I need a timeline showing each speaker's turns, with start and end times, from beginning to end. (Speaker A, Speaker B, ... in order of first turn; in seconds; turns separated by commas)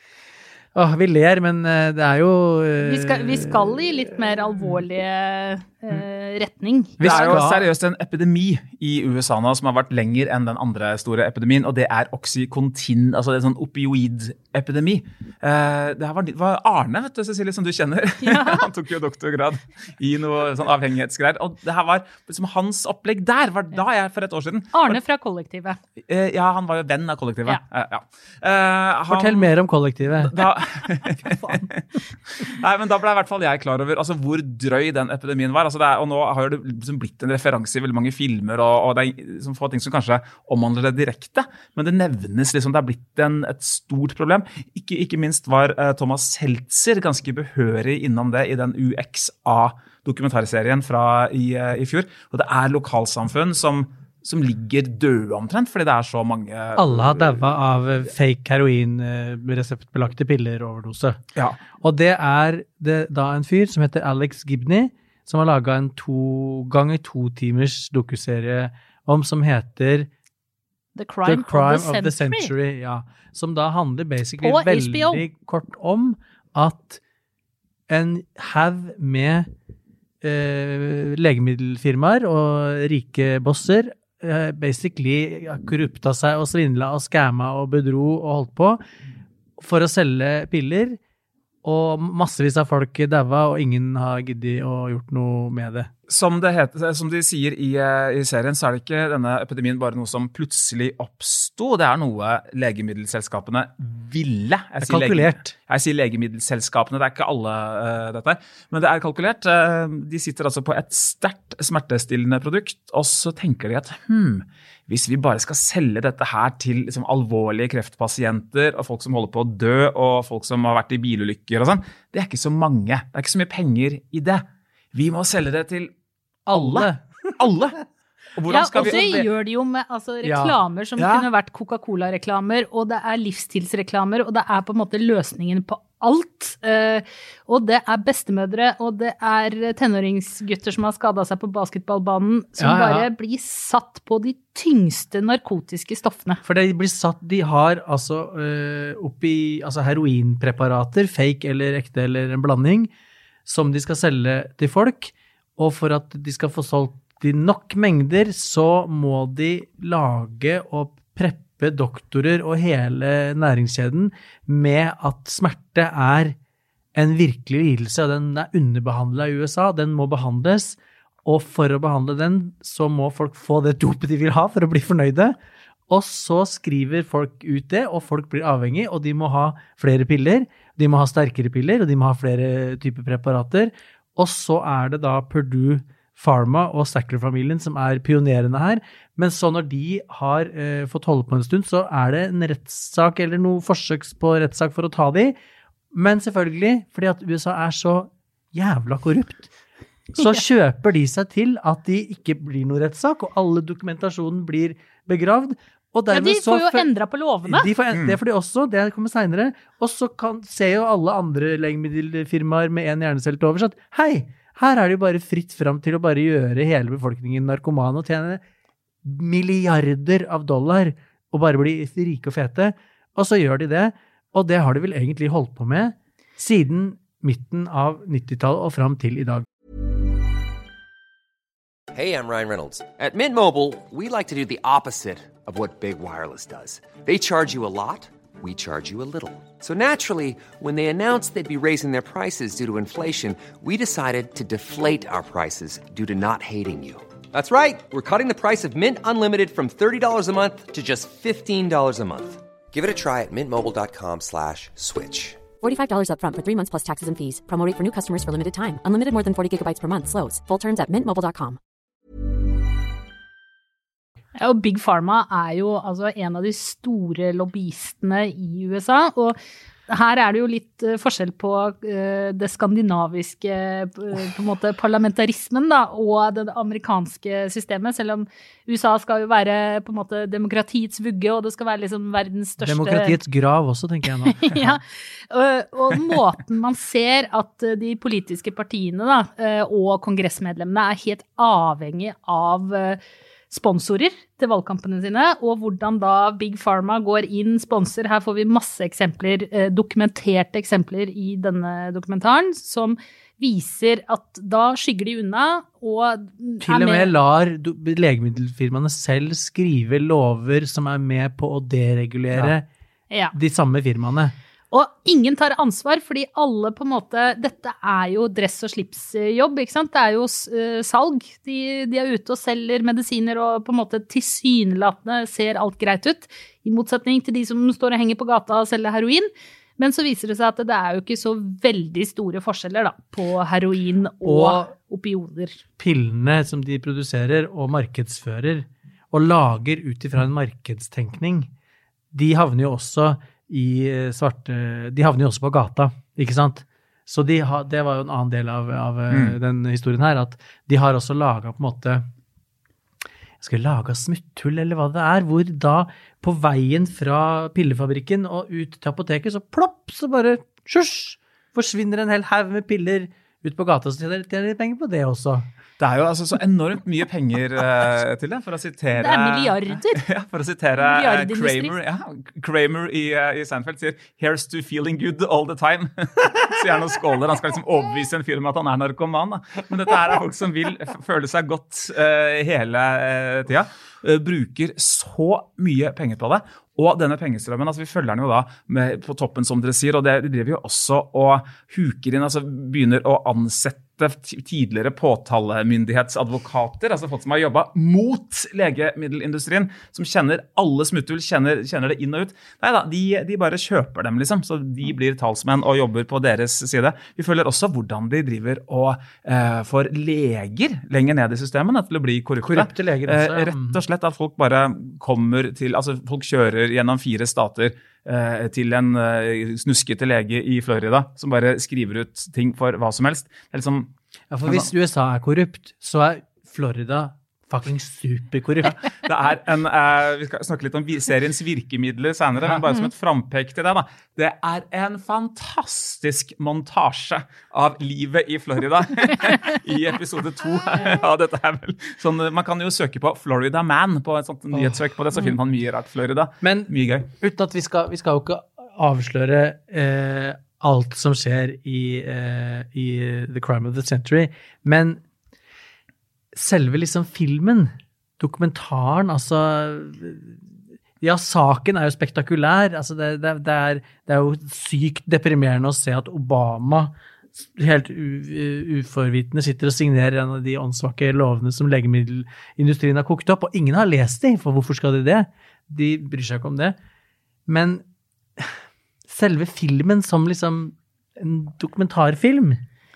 Speaker A: 0.8-3.9, Speaker B: 2.8-7.4, Speaker A: 7.0-7.7, Speaker C: 7.0-25.0, Speaker B: 18.2-18.7, Speaker B: 24.7-25.8, Speaker C: 26.1-29.5, Speaker A: 29.1-30.5, Speaker C: 30.2-57.5, Speaker A: 31.2-31.7, Speaker A: 56.8-61.2, Speaker A: 61.8-70.1, Speaker B: 71.0-72.5, Speaker A: 71.2-77.0, Speaker B: 74.4-75.2, Speaker A: 77.9-79.5, Speaker A: 80.2-88.8, Speaker A: 89.6-91.0, Speaker A: 91.6-95.9, Speaker C: 96.1-125.9, Speaker A: 104.8-105.5, Speaker A: 126.5-127.0, Speaker C: 126.5-127.8, Speaker C: 128.4-129.3, Speaker B: 128.5-146.4, Speaker A: 130.2-131.3, Speaker A: 142.6-143.1, Speaker A: 146.4-152.9, Speaker A: 153.5-166.4, Speaker A: 166.9-175.4, Speaker A: 175.9-195.3, Speaker A: 195.9-199.5, Speaker A: 200.1-206.9, Speaker B: 206.1-207.7, Speaker A: 207.4-218.4, Speaker A: 219.0-229.5, Speaker D: 231.9-255.4, Speaker E: 255.6-261.6, Speaker B: 264.4-269.4, Speaker B: 269.9-283.2, Speaker A: 282.6-284.8, Speaker B: 284.3-307.1, Speaker A: 306.6-312.7, Speaker B: 313.1-313.4, Speaker A: 313.3-314.4, Speaker B: 314.7-335.6, Speaker A: 334.2-334.7, Speaker A: 335.8-341.5, Speaker A: 342.1-352.1, Speaker C: 349.1-349.4, Speaker A: 353.4-365.5, Speaker C: 365.8-423.9, Speaker B: 368.9-370.0, Speaker B: 370.8-371.7, Speaker A: 412.4-413.8, Speaker A: 424.3-428.8, Speaker C: 428.6-447.1, Speaker A: 444.5-444.8, Speaker A: 446.4-455.0, Speaker A: 456.3-460.4, Speaker A: 461.0-476.8, Speaker A: 477.5-477.8, Speaker A: 479.1-482.6